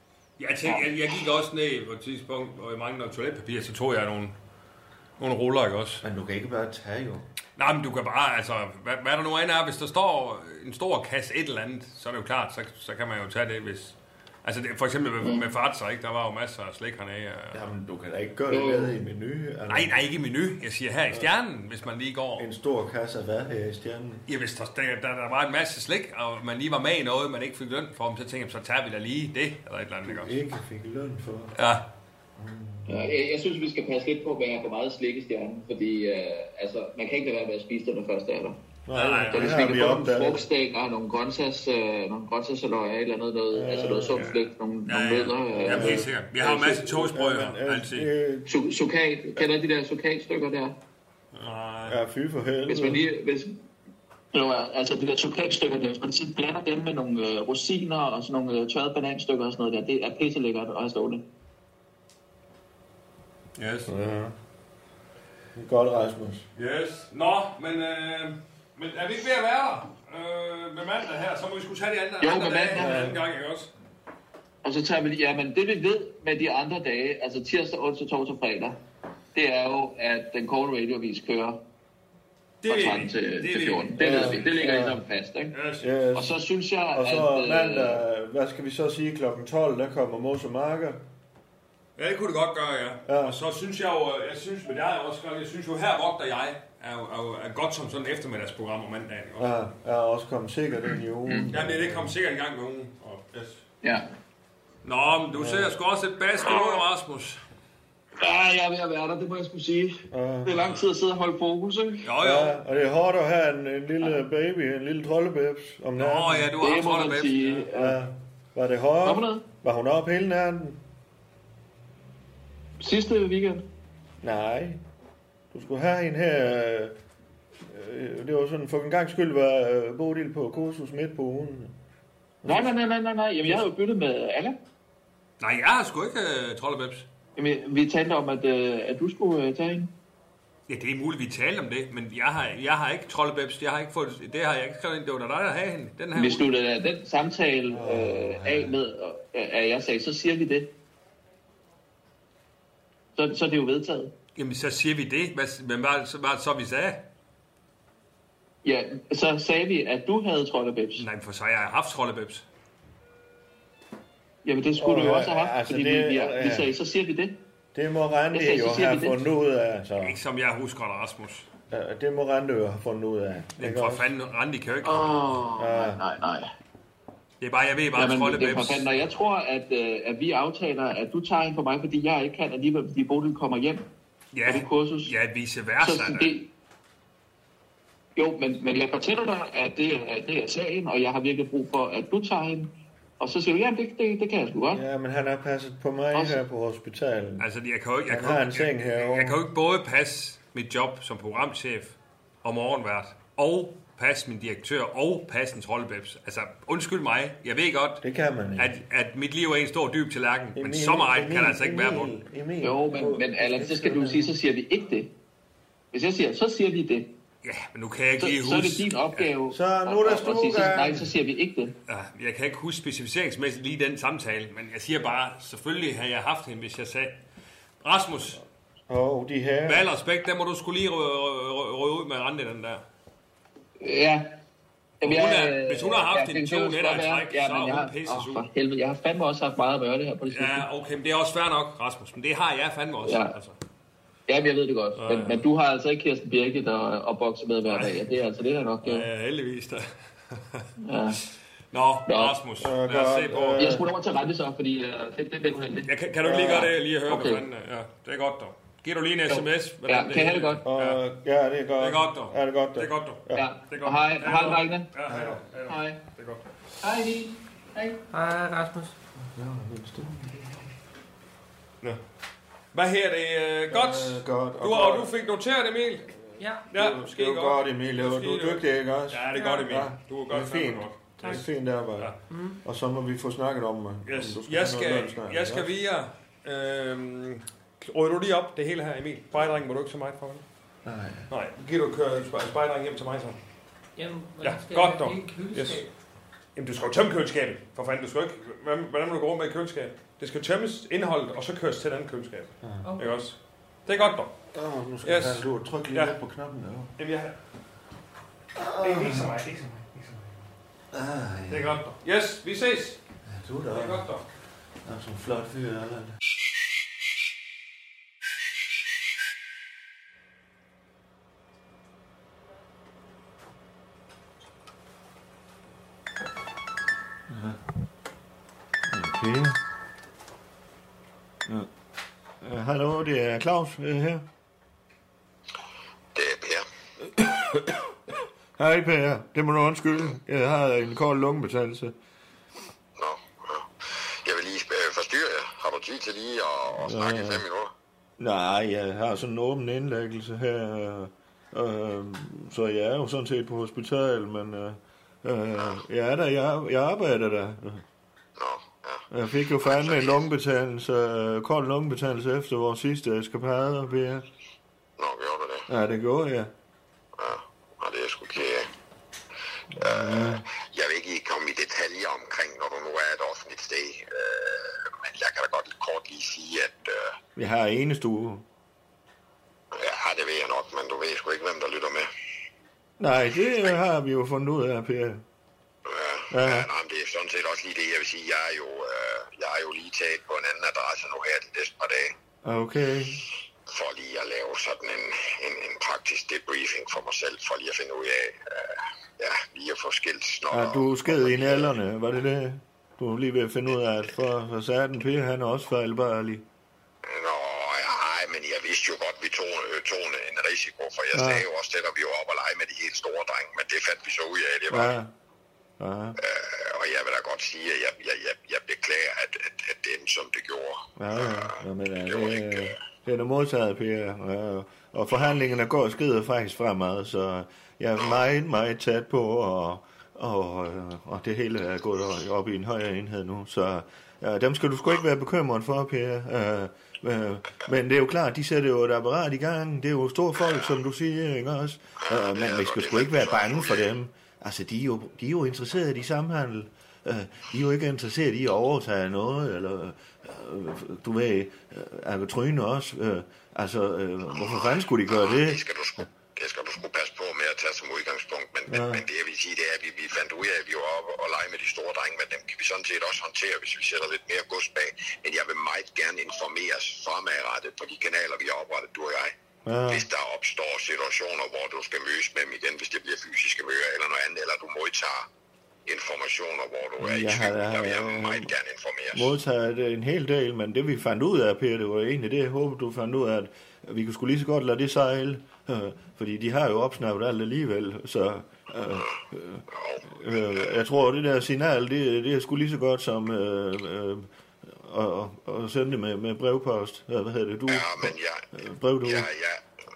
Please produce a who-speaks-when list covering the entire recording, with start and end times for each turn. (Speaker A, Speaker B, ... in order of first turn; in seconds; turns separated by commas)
Speaker A: 0.4-4.4, Speaker A: 5.2-6.0, Speaker B: 6.0-7.3, Speaker A: 7.6-17.7, Speaker B: 17.5-20.0, Speaker C: 18.5-18.9, Speaker A: 19.7-22.5, Speaker B: 22.4-24.2, Speaker A: 24.3-30.4, Speaker B: 30.1-31.6, Speaker A: 31.6-31.9, Speaker B: 32.4-33.1, Speaker C: 32.9-38.6, Speaker B: 38.9-40.5, Speaker A: 38.9-39.9, Speaker C: 39.3-46.1, Speaker B: 43.5-44.3, Speaker A: 44.1-48.1, Speaker B: 45.6-48.5, Speaker C: 48.5-50.8, Speaker A: 51.4-52.0, Speaker B: 51.9-53.0, Speaker C: 52.7-53.6, Speaker C: 54.3-61.2, Speaker A: 63.6-63.9, Speaker B: 63.9-64.3, Speaker B: 65.5-66.5, Speaker A: 66.6-73.7, Speaker C: 72.2-73.0, Speaker B: 72.8-73.2, Speaker C: 74.6-78.8, Speaker C: 79.3-81.6, Speaker A: 82.6-84.5, Speaker C: 82.7-85.5, Speaker B: 84.0-85.0, Speaker A: 85.5-85.9, Speaker B: 85.8-86.3, Speaker C: 86.2-88.0, Speaker B: 86.9-91.0, Speaker A: 92.0-99.5, Speaker B: 93.1-93.4, Speaker B: 99.4-102.2, Speaker A: 101.5-103.6, Speaker C: 103.8-104.1, Speaker A: 104.8-107.4, Speaker B: 105.3-105.8, Speaker C: 108.2-112.1, Speaker B: 110.1-110.6, Speaker A: 112.0-112.6, Speaker B: 112.2-116.5, Speaker A: 116.0-117.7, Speaker C: 116.6-118.0, Speaker B: 117.7-120.8, Speaker C: 119.0-119.4, Speaker C: 122.8-123.7, Speaker B: 124.2-124.8, Speaker B: 125.5-127.0, Speaker B: 127.7-131.8, Speaker B: 132.4-132.7, Speaker C: 132.4-134.6, Speaker A: 135.4-137.1, Speaker C: 137.4-139.9, Speaker A: 140.7-146.5, Speaker C: 146.2-150.7, Speaker B: 147.7-148.8, Speaker C: 153.2-154.1, Speaker A: 154.4-157.0, Speaker C: 158.6-161.0, Speaker A: 161.0-162.4, Speaker C: 164.4-167.4, Speaker B: 164.8-166.7, Speaker B: 167.8-170.2, Speaker C: 168.3-169.2, Speaker A: 170.0-171.5, Speaker B: 171.7-174.1, Speaker A: 173.6-175.2, Speaker C: 174.8-176.5, Speaker B: 175.6-176.0, Speaker A: 177.4-178.9, Speaker C: 177.9-183.8, Speaker A: 184.3-186.3, Speaker C: 184.4-185.1, Speaker C: 185.8-186.5, Speaker C: 188.2-194.8, Speaker B: 194.7-197.5, Speaker A: 197.4-208.0, Speaker B: 198.1-199.4, Speaker B: 208.0-208.8, Speaker A: 208.6-212.1, Speaker B: 210.6-214.3, Speaker C: 212.6-215.1, Speaker C: 215.9-217.1, Speaker A: 217.4-219.3, Speaker C: 218.2-221.8, Speaker B: 219.5-221.1, Speaker A: 221.9-227.2, Speaker A: 227.8-228.4, Speaker B: 228.9-229.9, Speaker A: 229.7-232.8, Speaker C: 233.8-234.4, Speaker C: 235.0-240.6, Speaker A: 235.0-238.5, Speaker A: 240.3-243.6, Speaker C: 243.0-243.4, Speaker C: 244.3-249.1, Speaker A: 245.0-245.4, Speaker A: 247.7-248.0, Speaker A: 248.8-250.7, Speaker C: 250.8-251.2, Speaker A: 251.7-253.8, Speaker C: 252.1-252.4, Speaker B: 252.6-253.9, Speaker C: 253.6-257.4, Speaker A: 255.8-261.0, Speaker B: 256.2-256.7, Speaker C: 259.3-260.6, Speaker B: 260.6-263.4, Speaker A: 261.8-266.4, Speaker C: 263.3-264.9, Speaker B: 265.1-265.4, Speaker C: 265.7-266.0, Speaker C: 266.8-268.0, Speaker D: 268.1-268.9, Speaker B: 269.2-270.7, Speaker A: 272.7-276.1, Speaker B: 273.7-275.1, Speaker D: 276.4-276.7, Speaker A: 276.7-281.4, Speaker B: 276.7-285.7, Speaker D: 279.4-279.6, Speaker D: 282.3-282.6, Speaker A: 284.1-290.4, Speaker B: 290.9-291.3, Speaker A: 291.3-293.4, Speaker D: 294.0-295.9, Speaker A: 294.4-295.8, Speaker A: 296.6-304.3, Speaker B: 302.6-302.9, Speaker D: 302.8-303.2, Speaker B: 304.5-306.9, Speaker A: 305.0-306.1, Speaker A: 307.0-307.4, Speaker B: 308.6-309.4, Speaker A: 308.8-310.3, Speaker B: 310.9-311.8, Speaker A: 311.5-313.0, Speaker B: 313.3-314.1, Speaker A: 313.7-314.2, Speaker B: 314.8-316.1, Speaker B: 327.3-327.6, Speaker B: 328.9-329.6, Speaker B: 332.4-334.2, Speaker E: 336.1-336.6, Speaker B: 337.1-337.8, Speaker B: 338.6-341.9, Speaker E: 343.0-347.7, Speaker B: 346.8-347.4, Speaker B: 348.2-357.8, Speaker E: 358.4-359.1, Speaker B: 359.1-364.3, Speaker E: 359.6-360.2, Speaker E: 365.0-365.7, Speaker B: 365.7-366.5, Speaker E: 367.2-368.7, Speaker B: 369.7-370.4, Speaker E: 369.8-377.1, Speaker B: 377.4-378.4, Speaker E: 379.7-382.1, Speaker B: 383.0-385.2, Speaker E: 385.9-392.1, Speaker B: 386.3-386.7, Speaker B: 392.4-393.2, Speaker E: 393.7-401.7, Speaker B: 400.5-406.5, Speaker E: 407.1-414.9, Speaker B: 411.1-411.5, Speaker B: 414.7-415.1, Speaker B: 415.8-416.2, Speaker E: 416.2-422.8, Speaker B: 421.0-455.6, Speaker E: 442.1-443.9, Speaker E: 454.3-469.3, Speaker B: 458.7-459.0, Speaker B: 469.6-470.1, Speaker E: 469.9-475.3, Speaker E: 475.9-479.3, Speaker B: 477.0-478.5, Speaker B: 479.1-499.3, Speaker E: 489.7-490.7, Speaker E: 497.7-498.5, Speaker E: 499.0-499.6